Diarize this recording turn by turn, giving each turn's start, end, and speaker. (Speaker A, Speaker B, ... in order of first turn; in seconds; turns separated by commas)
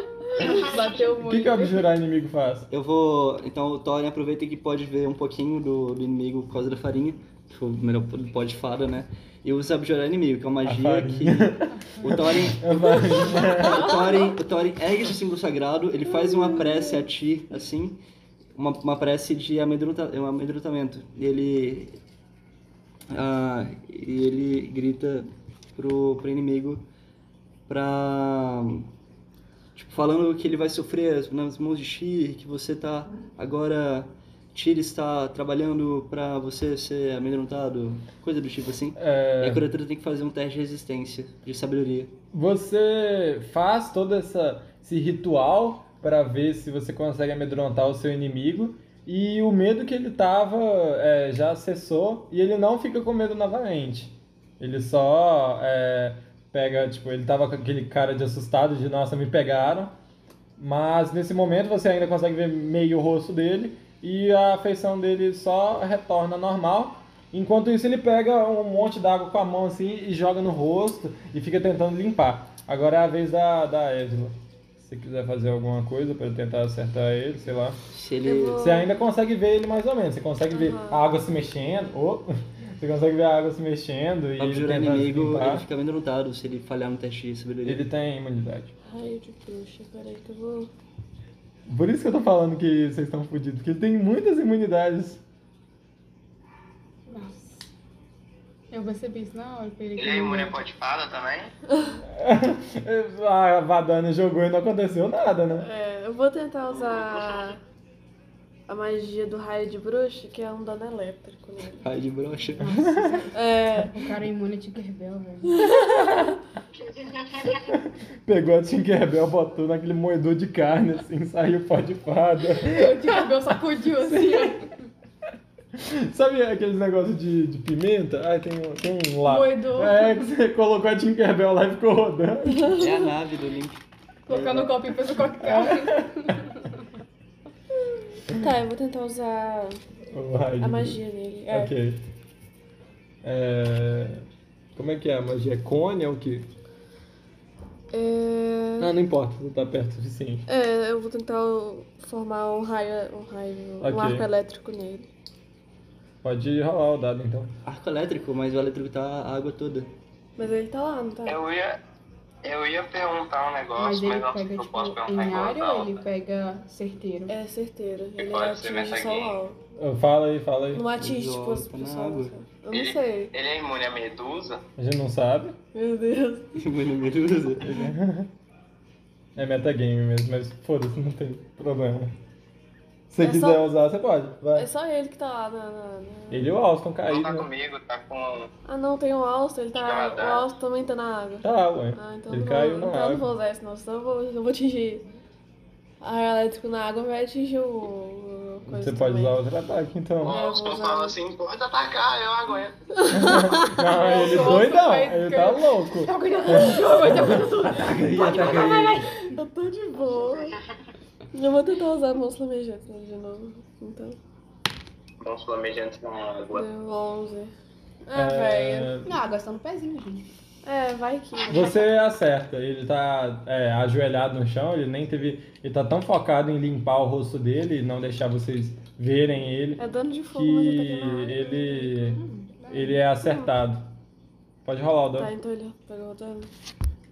Speaker A: 0.3-1.9, Speaker B: 1.2-2.7, Speaker C: 2.7-12.7, Speaker B: 10.6-13.9, Speaker A: 11.7-12.2, Speaker C: 13.7-18.0, Speaker D: 16.1-17.0, Speaker C: 18.5-22.0, Speaker C: 23.1-26.8, Speaker C: 27.7-28.9, Speaker C: 29.7-42.1, Speaker B: 39.0-39.6, Speaker B: 42.3-59.9, Speaker B: 60.6-77.8, Speaker C: 77.9-78.7, Speaker D: 78.2-79.0, Speaker B: 78.6-85.6, Speaker D: 80.5-81.0, Speaker C: 84.4-87.8, Speaker B: 87.6-88.7, Speaker D: 88.9-90.7, Speaker B: 91.7-95.2, Speaker A: 97.1-97.7, Speaker A: 98.7-100.6, Speaker E: 100.0-101.5, Speaker D: 101.7-102.0, Speaker B: 102.0-105.7, Speaker D: 105.6-107.6, Speaker D: 108.7-111.8, Speaker C: 111.8-112.7, Speaker A: 112.6-115.6, Speaker B: 112.6-113.2, Speaker D: 113.3-114.1, Speaker D: 115.5-116.3, Speaker B: 117.6-124.7, Speaker A: 122.6-124.7, Speaker B: 125.7-132.8, Speaker A: 129.2-130.2, Speaker C: 132.7-134.8, Speaker A: 134.3-136.7, Speaker B: 135.4-136.4, Speaker D: 138.3-139.8, Speaker B: 140.1-142.0, Speaker D: 140.6-141.7, Speaker B: 143.2-144.2, Speaker B: 144.8-146.5, Speaker D: 147.9-148.9, Speaker B: 148.8-150.4, Speaker D: 150.5-155.1, Speaker B: 153.8-154.2, Speaker B: 156.2-157.5, Speaker C: 157.6-159.9, Speaker D: 160.4-161.4, Speaker E: 161.2-161.8, Speaker E: 162.4-165.9, Speaker A: 163.8-167.3, Speaker D: 167.3-169.6, Speaker E: 168.2-169.4, Speaker B: 169.8-170.9, Speaker D: 170.7-173.3, Speaker C: 171.0-172.3, Speaker E: 172.7-174.6, Speaker B: 174.8-175.6, Speaker D: 175.7-176.6, Speaker C: 176.6-177.9, Speaker B: 177.6-178.3, Speaker B: 179.3-182.1, Speaker B: 183.1-184.7, Speaker D: 183.2-183.7, Speaker D: 184.5-186.5, Speaker B: 186.3-187.5, Speaker E: 187.1-188.5, Speaker D: 188.7-195.1, Speaker E: 189.7-190.5, Speaker B: 191.4-193.3, Speaker D: 196.0-199.3, Speaker B: 198.6-200.4, Speaker E: 200.2-202.8, Speaker D: 200.3-201.2, Speaker D: 203.0-204.6, Speaker B: 203.1-209.1, Speaker A: 203.9-209.4, Speaker D: 206.3-210.6, Speaker D: 211.3-214.2, Speaker E: 215.2-216.7, Speaker D: 216.5-217.5, Speaker D: 218.0-218.9, Speaker B: 218.1-219.1, Speaker A: 219.0-220.3, Speaker D: 220.6-221.7, Speaker B: 221.5-233.9, Speaker D: 229.8-232.2, Speaker A: 232.1-233.0, Speaker D: 233.2-233.5, Speaker B: 234.6-235.3, Speaker D: 235.2-236.5